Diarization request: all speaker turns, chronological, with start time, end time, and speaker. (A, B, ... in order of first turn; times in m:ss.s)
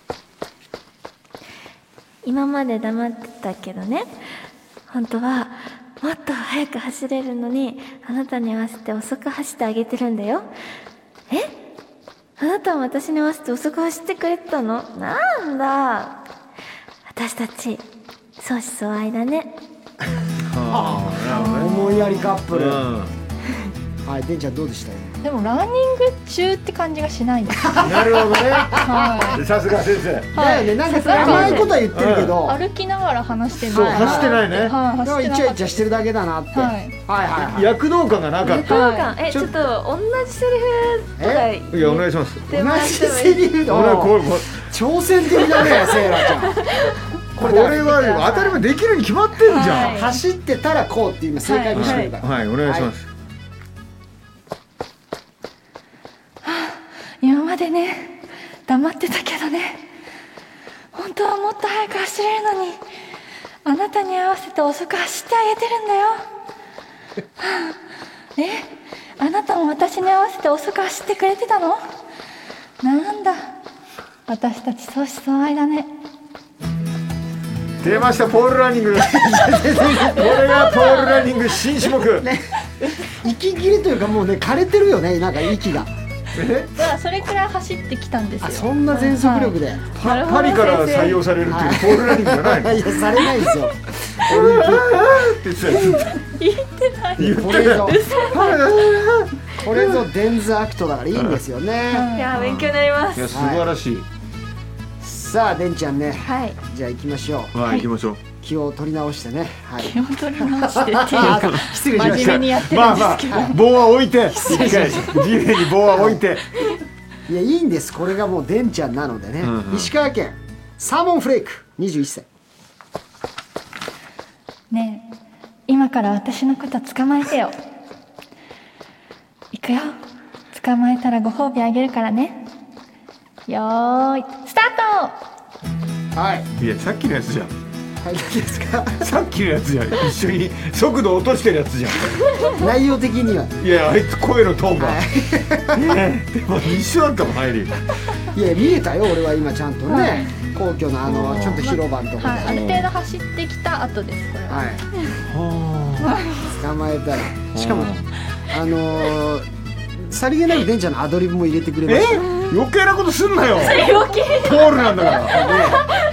0:02.2-0:04.2 A
0:04.9-0:10.5 A
0:12.4-0:16.2 A
0:17.1-0:17.8 A
0:18.4-0:19.6 A
0:20.4-0:21.9 B
0:20.7-0:22.8 C
0:21.4-0:22.2 D
0:22.5-0:23.1 B
0:24.0-0:25.2 C
0:25.2-0:27.8 D
0:27.6-0:29.4 C
0:27.8-0:30.4 B
0:28.8-0:29.4 D
0:30.3-0:32.6 C
0:30.3-0:31.7 D
0:31.1-0:32.4 B
0:31.1-0:31.7 A
0:32.4-0:35.8 D
0:33.7-0:34.8 B
0:33.7-0:37.8 C
0:36.5-0:36.9 D
0:37.4-0:38.8 B
0:38.4-0:39.5 C
0:38.5-0:43.6 A
0:38.6-0:39.1 D
0:41.2-0:41.5 C
0:41.7-0:42.4 B
0:42.5-0:46.6 C
0:43.7-0:44.6 B
0:45.7-0:47.0 A
0:47.4-0:48.1 C
0:47.4-0:50.1 B
0:47.6-0:48.6 D
0:49.5-0:50.2 D
0:49.5-0:52.9 C
0:51.4-0:51.8 D
0:51.7-0:53.1 B
0:51.8-0:52.1 A
0:56.4-0:59.9 D
1:00.9-1:02.8 D
1:03.6-1:06.2 D
1:07.4-1:07.8 D
1:08.4-1:11.8 D
1:12.8-1:13.5 D
1:14.3-1:15.9 D
1:17.8-1:22.3 B
1:19.0-1:20.4 C
1:20.4-1:21.3 D
1:22.2-1:25.9 C
1:26.3-1:26.8 B
1:26.8-1:29.6 D
1:28.4-1:30.0 C
1:29.9-1:33.1 B
1:30.0-1:31.2 A
1:31.4-1:35.3 C
1:34.2-1:36.2 B
1:35.8-1:38.7 D
1:37.2-1:38.1 C
1:37.2-1:39.9 B
1:39.6-1:42.1 C
1:41.9-1:42.4 D
1:42.1-1:43.3 A
1:42.3-1:44.1 B
1:43.3-1:43.7 C
1:45.0-1:47.5 C
1:46.2-1:46.6 A
1:47.5-1:48.2 B
1:48.4-1:53.6 C
1:49.8-1:53.6 D
1:51.2-1:56.5 B
1:54.3-1:55.3 C
1:54.4-1:55.2 D
1:55.8-1:56.2 C
1:57.3-2:02.2 C
1:59.4-1:59.9 B
2:04.7-2:05.1 D
2:05.7-2:07.6 D
2:09.5-2:10.0 D
2:10.5-2:12.5 D
2:13.5-2:15.2 D
2:16.1-2:16.5 C
2:16.6-2:17.5 B
2:18.0-2:19.1 C
2:19.0-2:22.3 B
2:22.5-2:23.6 C
2:23.6-2:25.0 B
2:24.7-2:26.0 C
2:25.7-2:27.8 B
2:28.3-2:32.7 C
2:29.9-2:30.3 D
2:31.0-2:31.7 B
2:31.6-2:34.7 D
2:32.4-2:32.9 B
2:34.5-2:34.8 C
2:35.2-2:36.2 B
2:36.5-2:37.9 C
2:37.5-2:38.0 B
2:38.5-2:42.3 C
2:41.9-2:45.5 B
2:43.6-2:45.7 D
2:45.3-2:45.8 C